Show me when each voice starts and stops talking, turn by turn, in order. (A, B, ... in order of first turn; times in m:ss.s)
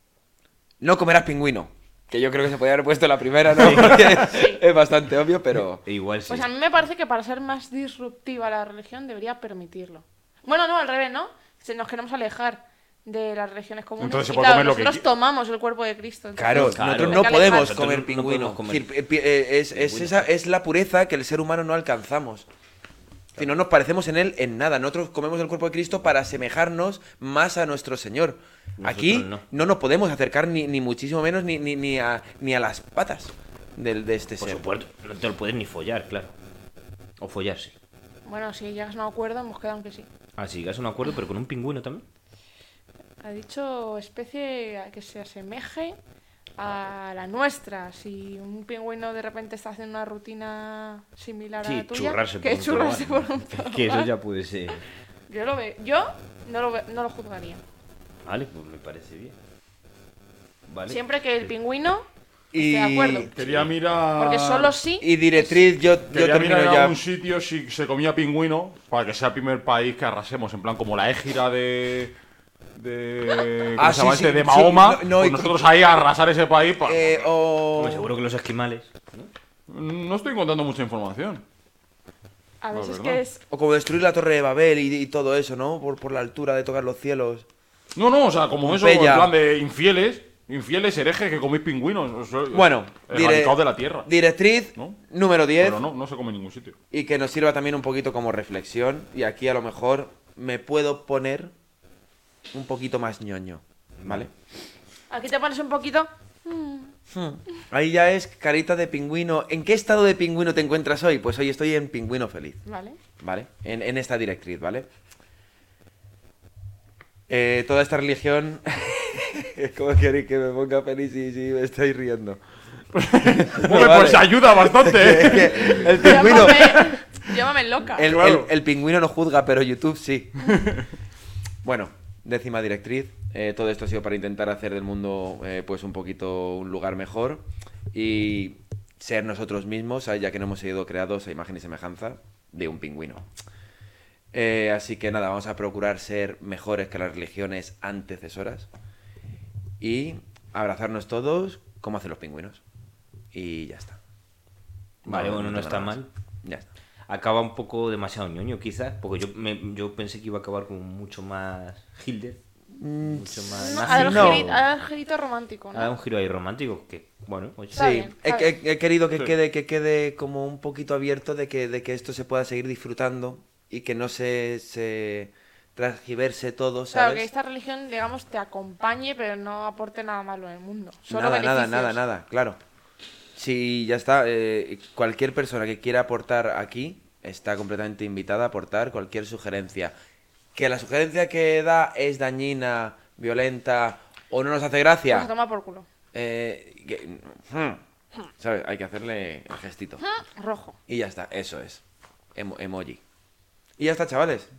0:00.8-0:05.8 A
0:03.5-0:04.3 B
0:04.2-0:04.6 C
0:05.8-0:06.5 B
0:06.3-0:17.8 C
0:14.0-0:15.0 D
0:16.4-0:22.5 A
0:16.5-0:18.9 B
0:19.7-0:20.3 B
0:23.4-0:34.7 A
0:28.8-0:29.4 B
0:34.4-0:36.3 B
0:37.2-0:37.7 B
0:38.2-0:40.1 C
0:40.4-0:42.0 B
0:43.2-0:46.0 C
0:46.6-0:54.1 C
0:51.6-0:54.8 B
0:55.3-0:57.6 C
0:58.2-0:59.3 B
1:00.7-1:01.0 B
1:00.9-1:03.3 C
1:02.5-1:03.3 A
1:03.3-1:04.7 D
1:03.4-1:03.7 B
1:04.2-1:05.6 C
1:05.0-1:07.0 A
1:06.1-1:12.1 D
1:12.8-1:17.3 D
1:13.8-1:15.6 A
1:16.8-1:18.1 A
1:17.8-1:19.3 B
1:19.7-1:21.4 D
1:22.6-1:23.4 C
1:22.7-1:23.2 D
1:23.5-1:27.4 A
1:28.0-1:34.1 D
1:28.6-1:29.3 A
1:32.5-1:35.8 A
1:35.6-1:36.7 D
1:36.9-1:41.5 A
1:42.5-1:44.3 A
1:44.0-1:44.3 B
1:45.1-1:46.9 C
1:47.1-1:52.6 A
1:52.6-1:53.0 C
1:53.2-1:54.9 A
1:57.3-2:02.4 A
2:02.9-2:06.8 D
2:03.2-2:06.9 A
2:06.0-2:08.1 C
2:08.0-2:10.5 A
2:08.0-2:08.5 D
2:10.6-2:10.8 D
2:11.6-2:23.3 A
2:24.3-2:28.7 A
2:29.8-2:32.6 A
2:33.3-2:34.0 A
2:35.0-2:36.1 B
2:35.0-2:36.7 A
2:37.1-2:42.4 B
2:42.8-2:44.5 A
2:43.0-2:44.7 B
2:43.6-2:45.9 C
2:45.7-2:47.9 B
2:47.7-2:48.5 C
2:47.7-2:57.2 A
2:56.9-3:02.0 C
3:01.1-3:02.6 A
3:03.4-3:09.9 A
3:10.5-3:15.3 A
3:15.1-3:15.8 C
3:16.1-3:17.8 A
3:18.4-3:20.0 A
3:20.0-3:20.8 C
3:20.9-3:21.8 A
3:22.3-3:23.0 A
3:23.8-3:24.5 A